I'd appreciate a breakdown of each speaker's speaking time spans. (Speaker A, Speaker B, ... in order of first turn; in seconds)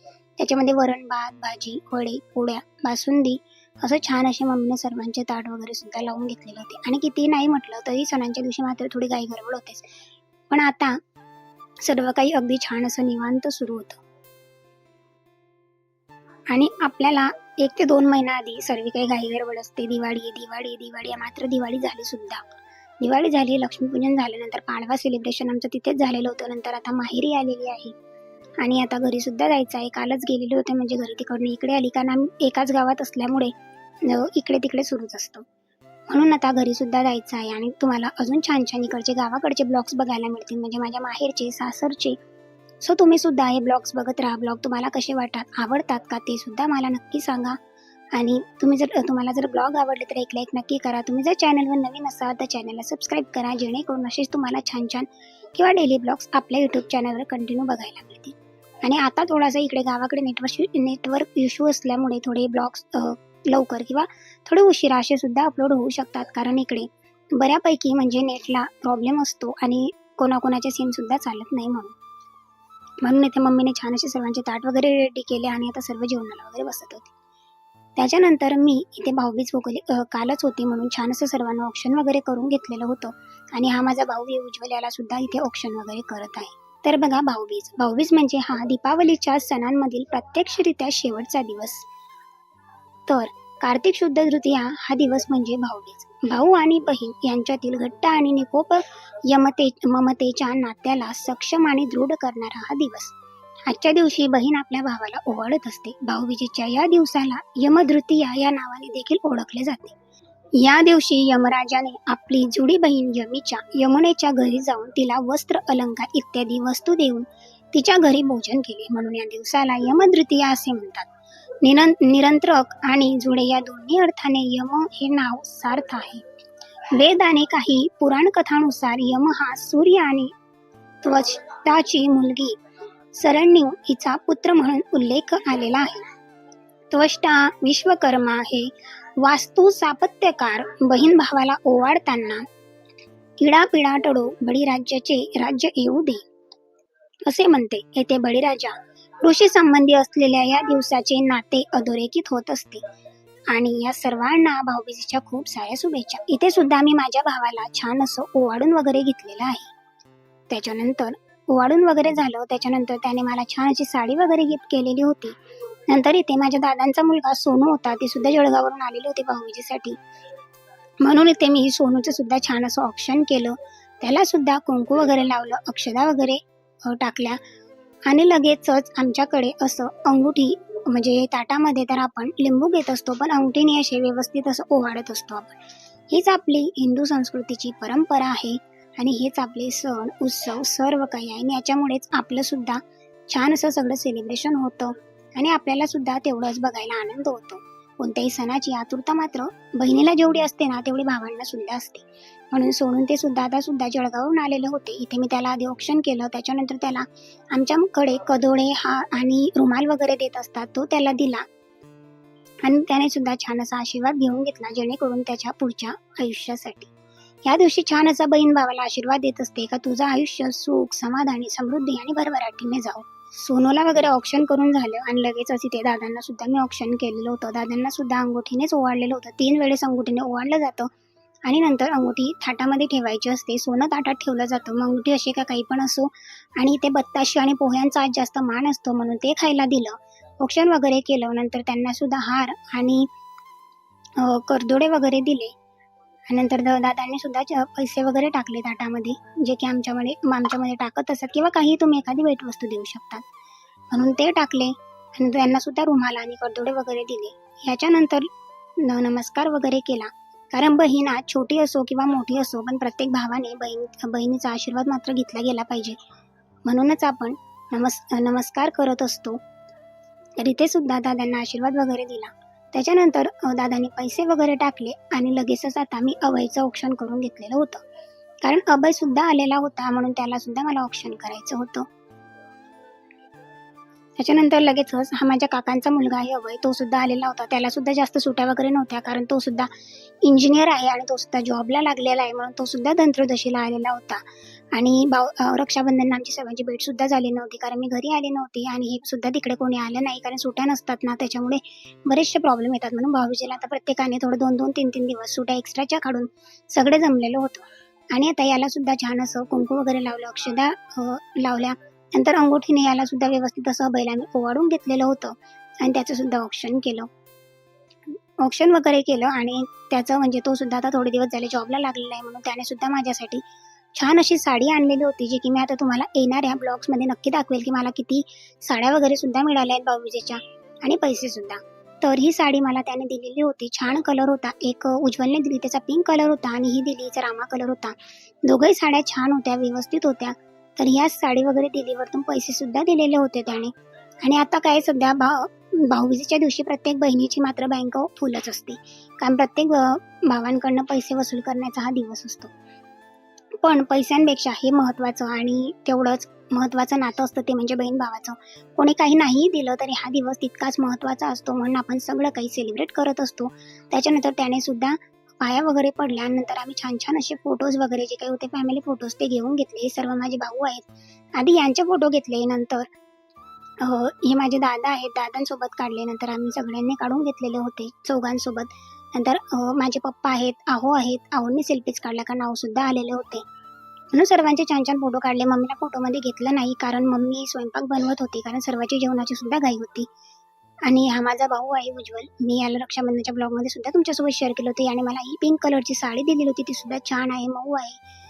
Speaker A: 0.4-9.9, 10.5-10.9, 11.8-14.0, 16.5-22.4, 23.0-27.9, 28.6-35.4, 36.1-42.2, 42.8-47.6, 48.1-71.9, 73.0-77.1, 78.0-91.8, 93.1-103.1, 103.7-110.0, 110.6-121.1, 121.6-126.2, 126.9-130.3, 131.0-132.6, 133.1-136.1, 136.9-142.4, 143.4-146.2, 147.2-152.8, 153.5-159.7, 160.5-165.4, 165.9-170.0, 171.0-177.4, 178.1-185.6, 186.1-211.4, 212.6-216.9, 217.4-230.9, 231.4-243.1, 244.2-245.5, 246.3-253.2, 253.9-258.3, 258.8-266.0, 266.6-269.4, 270.4-277.8, 278.4-281.9, 284.2-289.7, 290.2-317.1, 318.4-323.4, 323.9-352.5, 353.6-372.9, 373.8-383.4, 384.1-390.1, 390.9-398.0